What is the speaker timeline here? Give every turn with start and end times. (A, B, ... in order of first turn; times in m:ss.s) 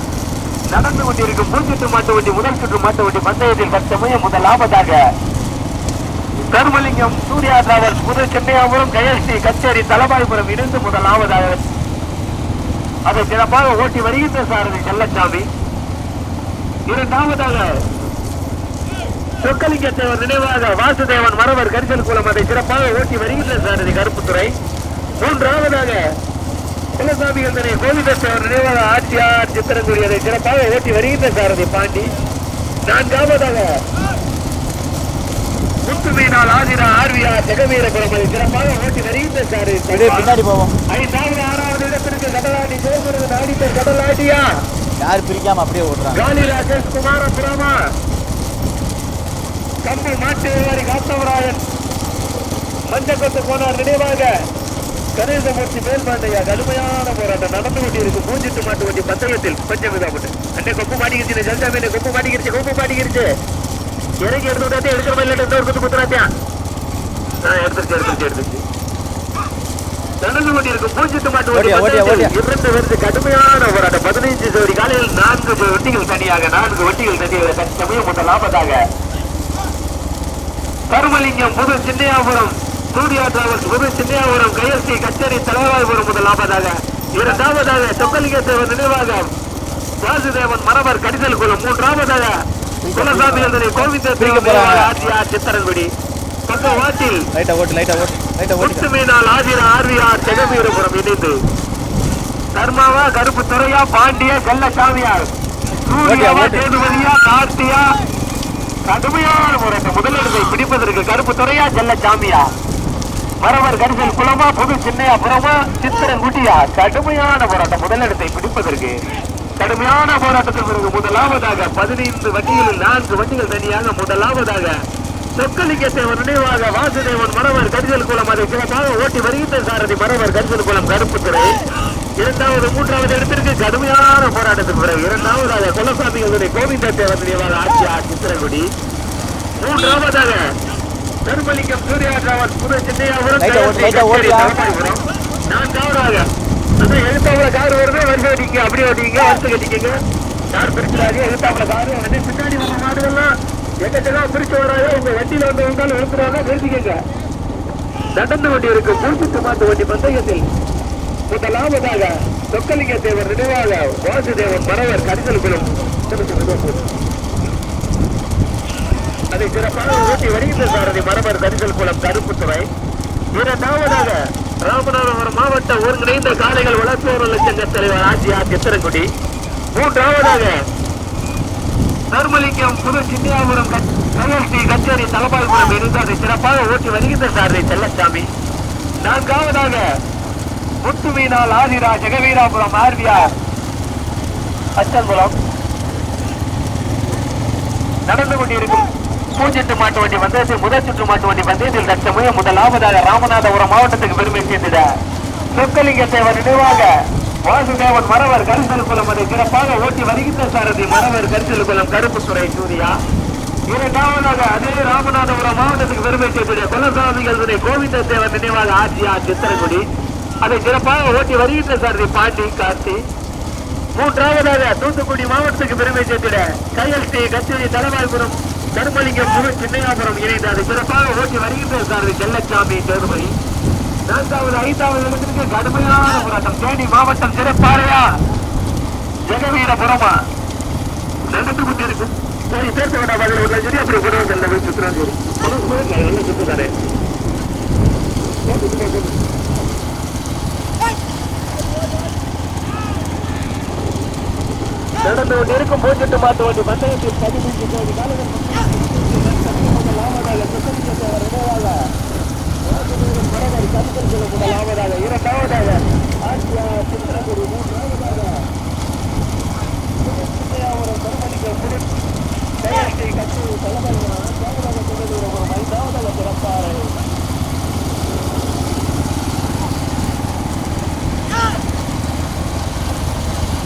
0:00.7-0:05.0 A
0:06.4-0:11.6 A
0:13.1-0:15.5 A
0:16.9-0:17.7 A
0:19.4-0:24.5 A
0:25.2-0:26.0 A
0:27.0-0:32.1 A
0:32.9-0:33.7 A
0:35.8-0:40.3 A
0:39.9-0:40.7 B
0:40.9-0:44.4 A
0:45.0-0:46.2 B
0:46.1-0:47.8 A
0:49.8-0:51.6 A
0:52.9-0:54.3 A
0:55.2-1:03.3 A
1:04.2-1:06.2 A
1:07.4-1:08.6 A
1:10.2-1:18.8 A
1:11.5-1:12.3 B
1:20.9-1:29.3 A
1:30.0-1:32.4 A
1:32.8-1:33.7 B
1:32.9-1:35.9 A
1:34.2-1:34.9 B
1:36.5-1:37.2 A
1:37.3-1:38.8 B
1:38.6-1:41.4 A
1:42.5-1:45.3 A
1:45.9-1:47.9 A
1:46.0-1:46.6 B
1:48.9-1:52.5 A
1:53.4-1:59.0 A
1:59.6-2:04.7 A
2:05.4-2:11.5 A
2:12.2-2:18.6 A
2:19.6-2:20.4 A
2:21.2-2:26.3 A
2:23.4-2:24.6 B
2:26.8-2:29.9 A
2:30.5-2:33.3 A
2:33.8-2:37.0 A
2:38.1-2:40.4 A
2:41.3-2:46.8 A
2:49.3-2:52.7 A
2:53.3-2:59.1 A
2:59.7-3:00.5 A
3:02.1-3:08.3 A
3:09.0-3:09.8 A
3:10.8-3:13.3 A
3:14.8-3:15.4 A
3:18.1-3:24.9 A
3:25.5-3:26.9 A
3:27.5-3:33.0 A
3:33.7-3:39.8 A
3:40.4-3:43.0 A
3:44.0-3:53.3 A
3:54.1-3:58.1 A
3:59.3-4:00.2 A
4:01.3-4:06.7 A
4:08.4-4:09.2 A
4:15.0-4:21.8 A
4:22.6-4:28.4 A
4:30.0-4:31.8 A
4:32.6-4:37.0 A